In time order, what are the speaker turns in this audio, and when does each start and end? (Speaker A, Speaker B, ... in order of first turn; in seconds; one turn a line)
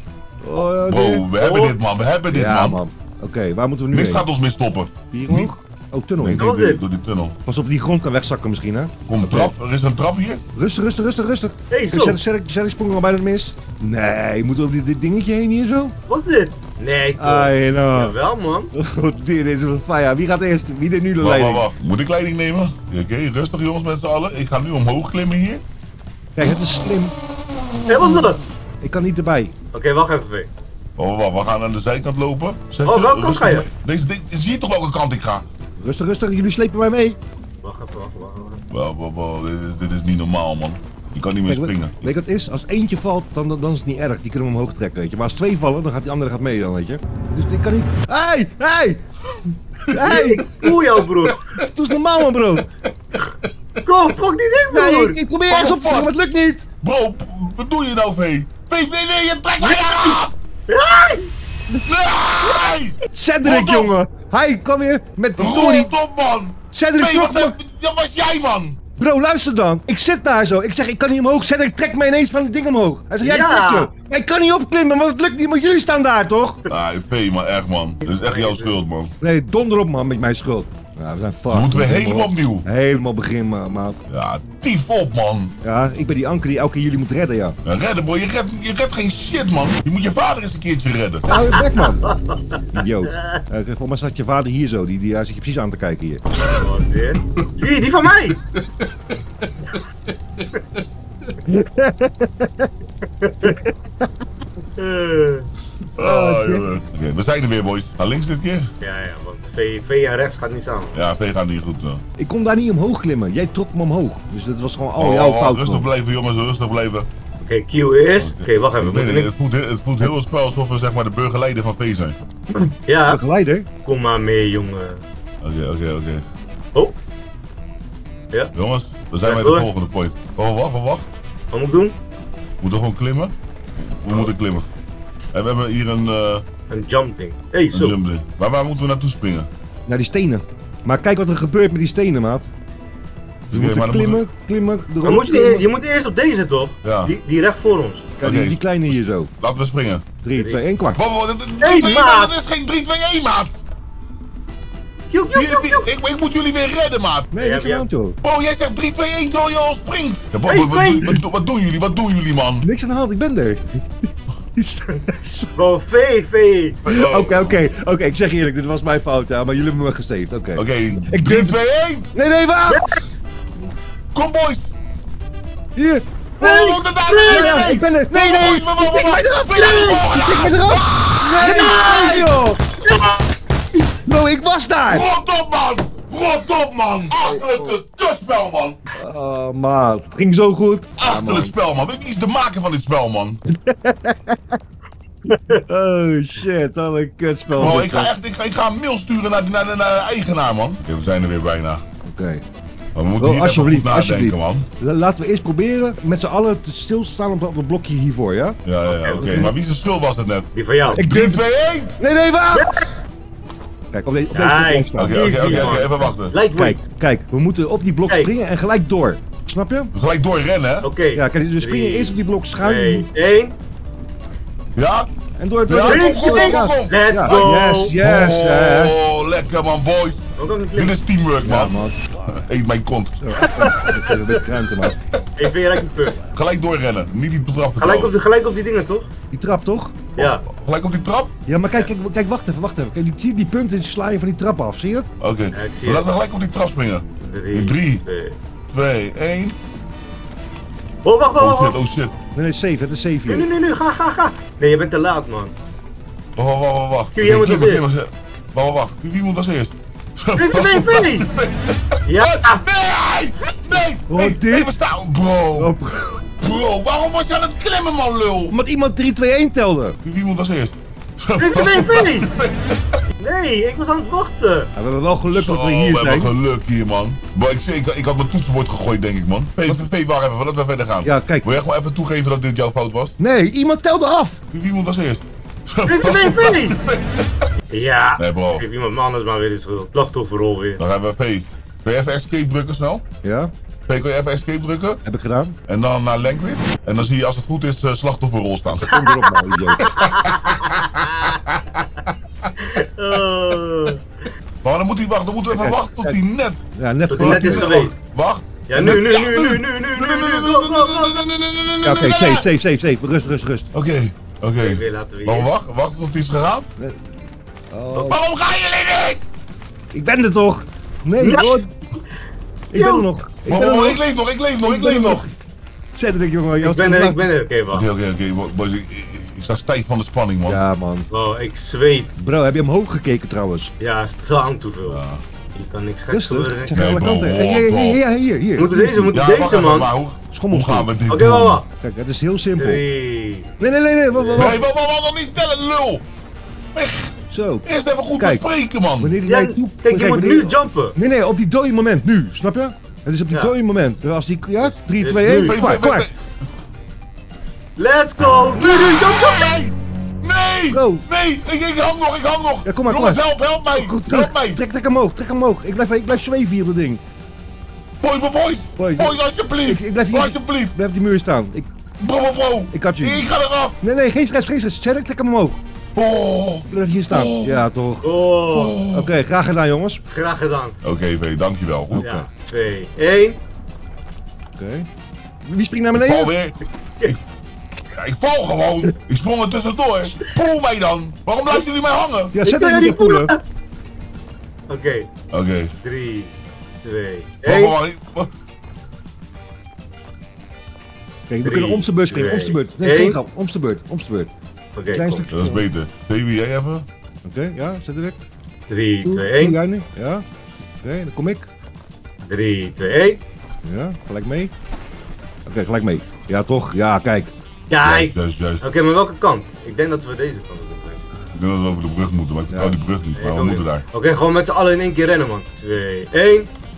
Speaker A: 0.4-1.3
Speaker B: 0.8-2.8
Speaker C: 1.4-1.7
Speaker A: 2.3-4.2
Speaker B: 3.9-5.5
Speaker A: 5.1-6.4
Speaker B: 6.2-7.3
Speaker C: 6.4-6.8
Speaker A: 7.5-9.5
Speaker B: 9.1-10.4
Speaker A: 10.5-15.9
Speaker C: 11.7-12.2
Speaker C: 16.1-18.7
Speaker A: 17.2-18.1
Speaker A: 18.7-21.7
Speaker B: 21.2-25.6
Speaker A: 26.4-27.1
Speaker C: 27.9-28.4
Speaker A: 28.8-29.5
Speaker C: 29.7-30.5
Speaker B: 31.0-35.4
Speaker C: 32.8-33.6
Speaker A: 35.8-37.2
Speaker C: 37.6-38.6
Speaker B: 38.7-42.1
Speaker A: 41.5-49.0
Speaker A: 49.9-50.5
Speaker C: 50.0-51.4
Speaker B: 50.6-51.6
Speaker A: 51.6-52.7
Speaker C: 53.8-55.2
Speaker A: 54.7-56.7
Speaker B: 55.5-56.1
Speaker B: 56.8-60.3
Speaker C: 59.6-61.3
Speaker B: 61.9-63.9
Speaker A: 63.0-65.9
Speaker B: 65.4-68.8
Speaker A: 66.7-67.5
Speaker A: 69.0-76.6
Speaker C: 73.2-73.9
Speaker B: 76.7-79.1
Speaker C: 78.0-78.8
Speaker A: 79.2-84.0
Speaker B: 81.5-82.7
Speaker B: 84.1-85.5
Speaker A: 85.6-87.5
Speaker B: 87.6-91.2
Speaker A: 91.3-92.2
Speaker C: 91.4-92.6
Speaker A: 92.7-96.2
Speaker B: 96.4-96.7
Speaker C: 96.5-98.4
Speaker B: 97.2-97.5
Speaker A: 101.5-102.7
Speaker C: 103.2-103.5
Speaker A: 103.4-104.0
Speaker C: 104.8-105.5
Speaker B: 106.0-108.7
Speaker A: 106.0-106.6
Speaker C: 108.8-111.0
Speaker B: 110.9-112.0
Speaker A: 112.2-115.8
Speaker B: 115.0-117.1
Speaker C: 117.4-119.3
Speaker B: 118.2-122.2
Speaker C: 122.8-123.2
Speaker A: 123.1-123.7
Speaker C: 123.8-125.0
Speaker B: 125.4-126.2
Speaker B: 128.5-131.1
Speaker C: 129.2-129.7
Speaker C: 131.5-131.9
Speaker B: 132.6-133.3
Speaker B: 134.0-134.7
Speaker B: 135.3-136.4
Speaker C: 136.7-138.0
Speaker B: 137.7-139.5
Speaker A: 139.9-142.5
Speaker B: 143.5-144.2
Speaker A: 143.5-145.7
Speaker C: 145.0-148.1
Speaker B: 146.8-147.1
Speaker A: 148.2-149.3
Speaker B: 148.2-150.0
Speaker A: 150.2-151.0
Speaker B: 151.0-153.6
Speaker C: 151.6-152.3
Speaker C: 155.1-155.9
Speaker B: 155.3-157.3
Speaker A: 157.3-158.2
Speaker C: 157.3-157.8
Speaker B: 158.2-162.7
Speaker C: 160.5-161.2
Speaker A: 162.6-163.9
Speaker A: 164.5-165.5
Speaker C: 165.5-166.8
Speaker B: 166.8-167.6
Speaker A: 166.9-171.6
Speaker B: 170.6-172.1
Speaker A: 172.1-172.9
Speaker C: 172.7-173.0
Speaker B: 174.1-174.7
Speaker A: 175.8-176.0
Speaker B: 176.4-181.5
Speaker C: 176.4-177.8
Speaker A: 177.2-182.6
Speaker C: 179.6-180.0
Speaker C: 181.4-183.2
Speaker A: 184.1-185.1
Speaker B: 184.9-188.8
Speaker A: 187.2-187.7
Speaker A: 188.9-191.5
Speaker B: 191.0-193.4
Speaker A: 193.5-194.6
Speaker C: 195.3-195.6
Speaker A: 195.7-198.1
Speaker B: 197.5-201.8
Speaker A: 202.0-202.4
Speaker B: 202.9-204.7
Speaker A: 203.2-208.6
Speaker B: 208.6-211.9
Speaker C: 208.8-209.5
Speaker A: 209.2-209.5
Speaker C: 210.5-211.0
Speaker A: 210.9-211.4
Speaker A: 212.0-212.7
Speaker C: 212.5-212.8
Speaker A: 213.9-219.9
Speaker C: 214.3-216.8
Speaker B: 215.0-216.3
Speaker B: 219.9-220.9
Speaker C: 220.8-223.5
Speaker A: 221.1-223.1
Speaker B: 224.8-225.1
Speaker A: 225.4-228.9
Speaker B: 225.7-233.7
Speaker C: 225.7-227.9
Speaker C: 230.4-231.0
Speaker A: 231.4-232.0
Speaker A: 233.2-234.9
Speaker C: 233.4-234.2
Speaker C: 235.4-236.2
Speaker B: 236.3-238.1
Speaker C: 237.8-239.1
Speaker A: 239.3-240.0
Speaker C: 240.2-240.4
Speaker B: 240.2-241.3
Speaker A: 241.5-245.1
Speaker B: 245.2-248.0
Speaker C: 245.5-246.1
Speaker C: 247.2-248.4
Speaker B: 248.7-249.6
Speaker C: 251.0-251.8
Speaker B: 251.4-252.1
Speaker A: 252.3-253.5
Speaker C: 253.3-255.5
Speaker B: 256.4-268.5
Speaker C: 257.1-257.8
Speaker C: 260.4-261.3
Speaker C: 262.0-262.6
Speaker A: 264.1-264.7
Speaker A: 265.6-266.0
Speaker A: 268.5-270.0
Speaker B: 270.0-273.0
Speaker C: 271.4-272.3
Speaker C: 273.2-274.7
Speaker A: 274.8-276.3
Speaker B: 275.2-283.1
Speaker A: 281.0-281.6
Speaker A: 283.2-284.4
Speaker B: 284.5-287.3
Speaker C: 285.9-286.8
Speaker C: 287.7-290.8
Speaker B: 288.2-288.6
Speaker B: 290.8-293.0
Speaker A: 293.2-293.5
Speaker B: 293.9-295.0
Speaker A: 295.0-295.6
Speaker B: 295.7-299.0
Speaker A: 298.8-300.0
Speaker C: 299.8-301.4
Speaker B: 299.9-300.8
Speaker C: 302.6-304.0
Speaker B: 304.6-312.5
Speaker A: 305.5-306.2
Speaker A: 306.7-307.9
Speaker C: 307.1-307.9
Speaker C: 308.7-311.2
Speaker A: 311.8-313.7
Speaker B: 313.7-316.6
Speaker C: 314.6-315.5
Speaker A: 316.8-317.1
Speaker A: 317.7-318.2
Speaker B: 318.1-319.2
Speaker A: 319.9-321.7
Speaker C: 321.2-321.6
Speaker A: 322.7-324.0
Speaker C: 322.7-323.1
Speaker B: 323.5-325.3
Speaker A: 324.6-325.3
Speaker A: 325.9-327.2
Speaker C: 326.6-327.9
Speaker B: 327.7-330.6
Speaker A: 330.4-331.1
Speaker C: 331.1-332.1
Speaker A: 332.1-333.7
Speaker C: 333.8-335.0
Speaker B: 334.9-335.2
Speaker C: 335.5-336.8
Speaker A: 336.1-339.2
Speaker B: 336.7-338.0
Speaker C: 338.6-339.9
Speaker B: 339.1-341.6
Speaker A: 340.3-340.9
Speaker C: 341.1-341.6
Speaker A: 341.8-342.8
Speaker C: 342.6-343.5
Speaker A: 343.6-344.6
Speaker C: 344.1-344.6
Speaker B: 344.4-346.0
Speaker B: 346.7-349.2
Speaker A: 347.3-348.4
Speaker A: 349.0-356.1
Speaker C: 349.2-350.9
Speaker C: 354.6-355.6
Speaker B: 355.2-356.3
Speaker C: 357.8-359.6
Speaker B: 358.2-364.6
Speaker A: 360.7-361.1
Speaker A: 362.6-367.0
Speaker B: 368.0-370.7
Speaker A: 368.8-371.6
Speaker B: 372.0-373.8
Speaker A: 372.7-373.3
Speaker A: 373.8-375.6
Speaker B: 375.9-377.6
Speaker A: 376.6-378.1
Speaker C: 378.0-378.8
Speaker B: 378.5-379.1
Speaker A: 378.9-380.0
Speaker C: 380.1-380.7
Speaker B: 380.8-382.0
Speaker A: 381.9-382.3
Speaker C: 382.0-383.4
Speaker A: 384.6-384.9
Speaker A: 385.4-386.3
Speaker B: 385.9-387.2
Speaker B: 387.9-392.3
Speaker A: 392.3-393.3
Speaker C: 392.4-393.4
Speaker C: 394.7-395.1
Speaker B: 395.3-395.7
Speaker C: 395.8-397.7
Speaker B: 397.4-398.3
Speaker A: 401.3-404.3
Speaker C: 401.4-403.2
Speaker C: 404.8-405.2
Speaker A: 404.9-405.6
Speaker B: 405.3-406.9
Speaker A: 407.2-408.2
Speaker C: 408.7-409.6
Speaker A: 409.0-410.2
Speaker A: 410.8-411.5
Speaker C: 412.2-413.2
Speaker A: 413.6-414.5
Speaker A: 415.4-417.3
Speaker C: 417.7-421.0
Speaker B: 417.8-418.6
Speaker B: 421.3-423.8
Speaker A: 422.5-422.8
Speaker C: 423.1-426.5